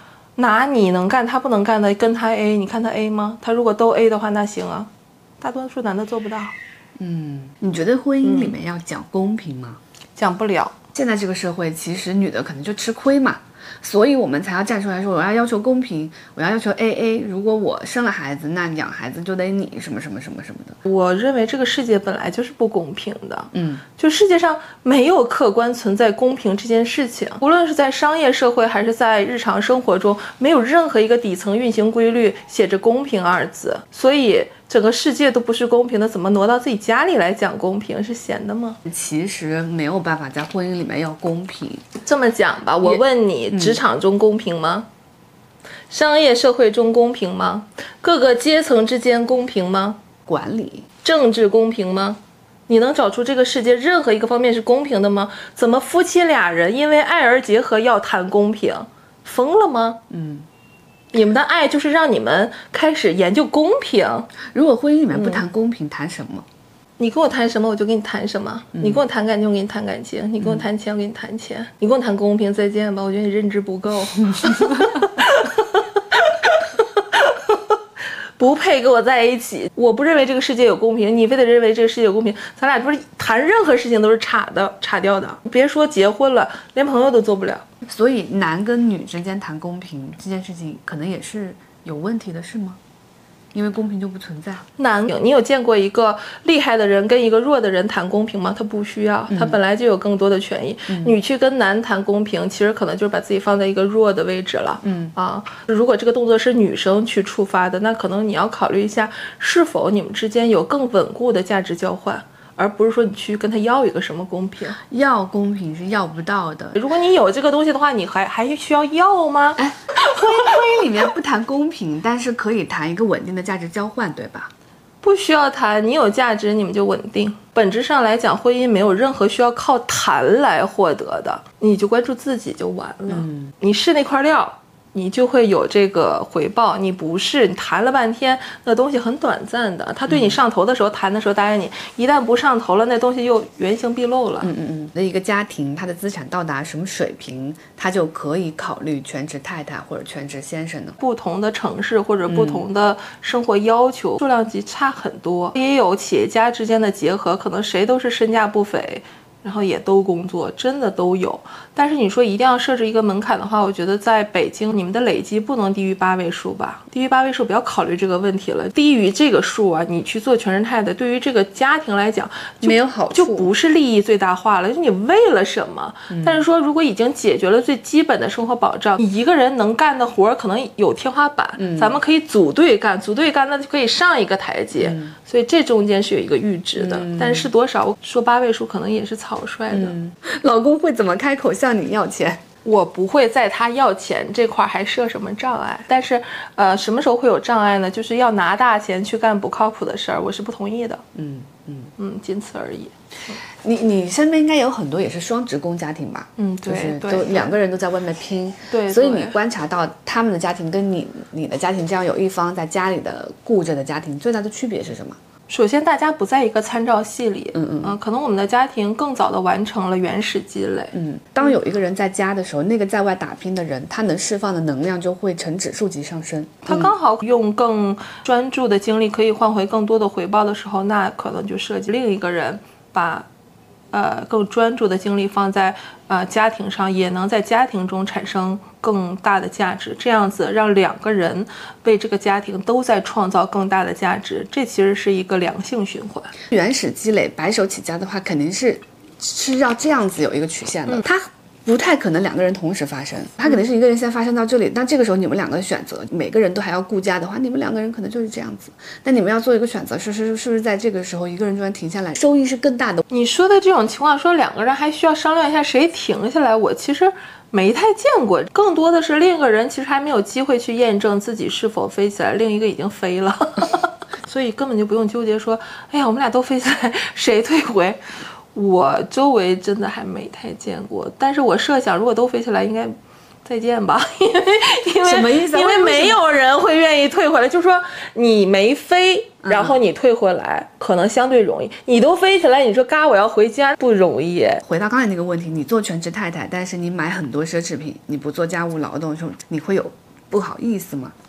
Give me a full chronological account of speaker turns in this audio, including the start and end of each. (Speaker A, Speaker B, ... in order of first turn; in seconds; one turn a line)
Speaker A: 0.4-4.9
Speaker A: 5.4-6.5
Speaker B: 7.0-9.8
Speaker A: 8.2-8.6
Speaker A: 10.2-10.8
Speaker B: 10.9-20.8
Speaker A: 20.9-38.8
Speaker B: 23.5-23.8
Speaker B: 38.9-41.9
Speaker A: 42.0-44.9
Speaker B: 43.5-43.8
Speaker A: 45.9-50.0
Speaker B: 50.3-50.9
Speaker A: 51.0-60.0
Speaker B: 60.1-60.5
Speaker A: 61.1-64.3
Speaker B: 64.4-66.5
Speaker A: 65.1-65.4
Speaker A: 67.0-77.8
Speaker B: 68.7-69.0
Speaker B: 74.3-75.1
Speaker A: 78.4-87.6
Speaker B: 87.8-92.8
Speaker B: 93.5-94.6
Speaker A: 94.8-114.8
Speaker B: 99.3-99.6
Speaker B: 100.9-101.2
Speaker B: 104.8-105.1
Speaker B: 114.8-116.8
Speaker A: 116.7-120.5
Speaker B: 119.6-124.5
Speaker A: 125.0-144.5
Speaker B: 133.1-133.5
Speaker B: 140.1-140.4
Speaker B: 144.4-151.0
Speaker A: 151.0-189.9
Speaker B: 152.3-152.7
Speaker B: 172.6-173.5
Speaker B: 176.1-176.4
Speaker B: 181.6-181.9
Speaker B: 184.8-185.1
Speaker B: 186.8-187.5
Speaker B: 189.7-192.4
Speaker A: 192.6-201.0
Speaker B: 201.1-201.9
Speaker A: 202.0-203.4
Speaker B: 203.4-215.2
Speaker A: 206.4-207.6
Speaker A: 208.7-209.4
Speaker A: 215.5-220.9
Speaker B: 217.5-217.9
Speaker B: 220.9-226.9
Speaker A: 226.7-233.3
Speaker A: 233.9-246.3
Speaker B: 246.5-263.0
Speaker A: 263.1-278.0
Speaker A: 278.5-294.6
Speaker B: 285.0-286.2
Speaker B: 289.4-289.7
Speaker B: 294.6-301.1